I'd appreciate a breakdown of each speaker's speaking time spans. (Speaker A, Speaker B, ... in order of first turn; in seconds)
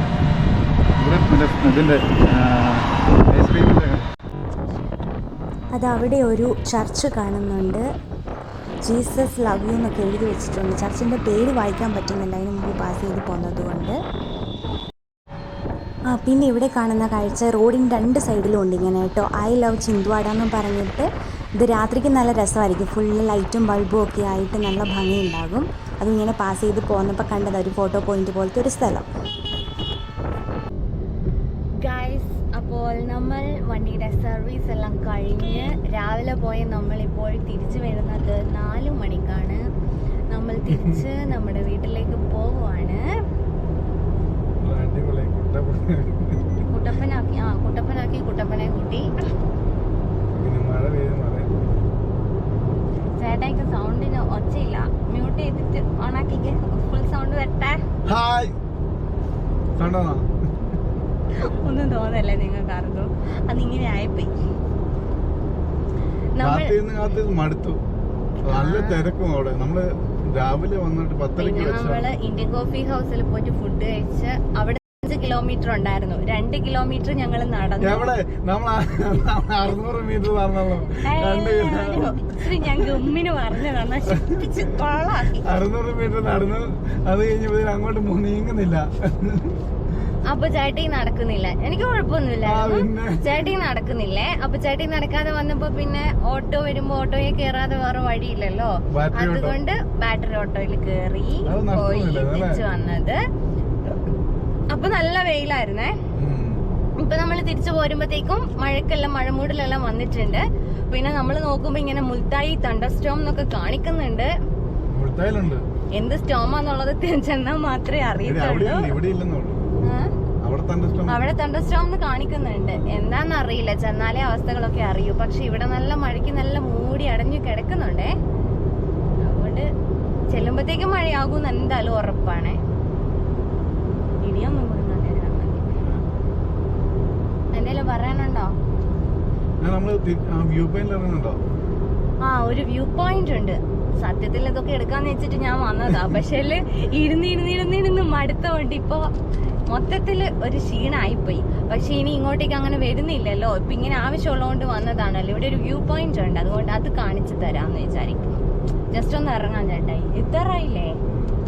Speaker A: 1.0-4.1, 40.7-41.0, 44.6-46.6, 50.3-51.6, 58.0-58.5, 59.8-60.3, 66.4-67.8, 68.5-72.1, 77.8-83.0, 85.4-89.6, 92.4-93.5, 98.9-99.6, 101.5-102.6, 106.2-106.7, 114.9-115.6, 118.2-119.8, 120.4-121.2, 139.6-141.4
Speaker B: 5.7-7.8, 8.8-13.9, 16.1-21.1, 21.6-29.1
Speaker C: 31.8-39.6, 40.3-43.0, 46.7-49.1, 53.1-57.8, 61.3-64.3, 66.4-66.7, 68.5-69.1, 71.4-78.2, 81.0-85.5, 90.3-103.2, 104.7-105.9, 107.0-114.3, 115.9-119.0, 119.8-120.1, 121.1-128.1, 129.2-129.7, 130.3-132.6, 134.2-135.7, 137.5-138.5, 142.2-149.1, 149.7-160.9